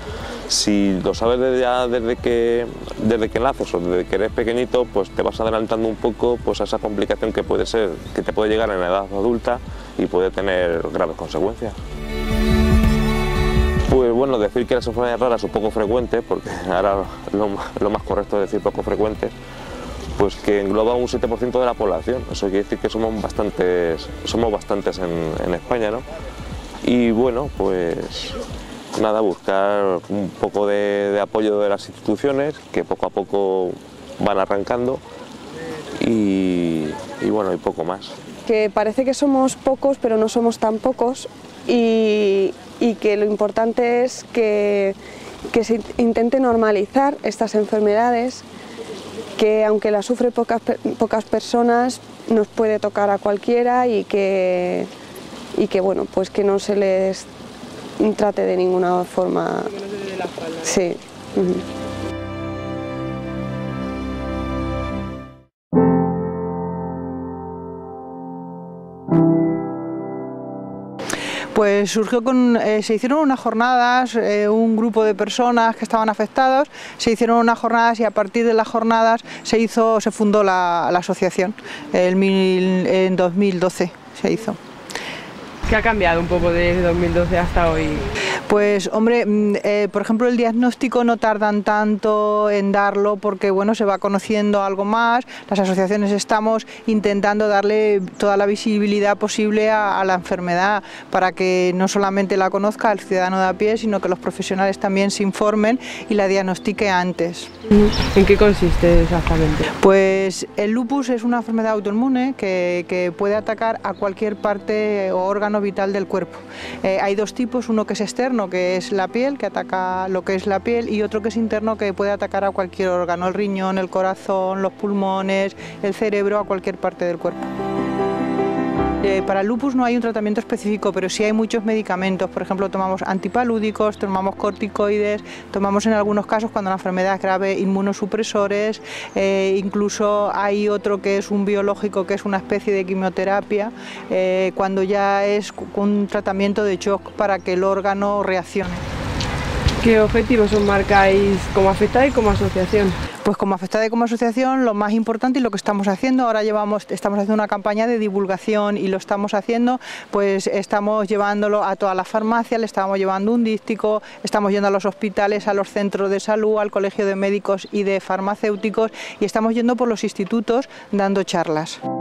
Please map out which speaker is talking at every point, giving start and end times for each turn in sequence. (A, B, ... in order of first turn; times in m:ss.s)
0:00.5-0:11.8 A
0:13.9-0:19.3 A
0:20.2-0:26.0 A
0:26.8-0:28.4 A
0:29.0-0:35.0 A
0:36.0-0:38.2 A
0:38.5-0:45.0 B
0:45.5-0:48.4 B
0:49.4-0:54.9 B
0:55.6-0:57.3 B
0:58.0-0:59.7 B
0:59.7-1:00.7 C
1:00.6-1:01.6 B
1:11.5-1:24.6 D
1:25.7-1:28.1 C
1:28.5-1:47.5 D
1:47.7-1:49.7 C
1:49.8-2:07.5 D
2:09.0-2:28.8 D
2:29.8-2:33.0 C
2:33.2-2:51.8 D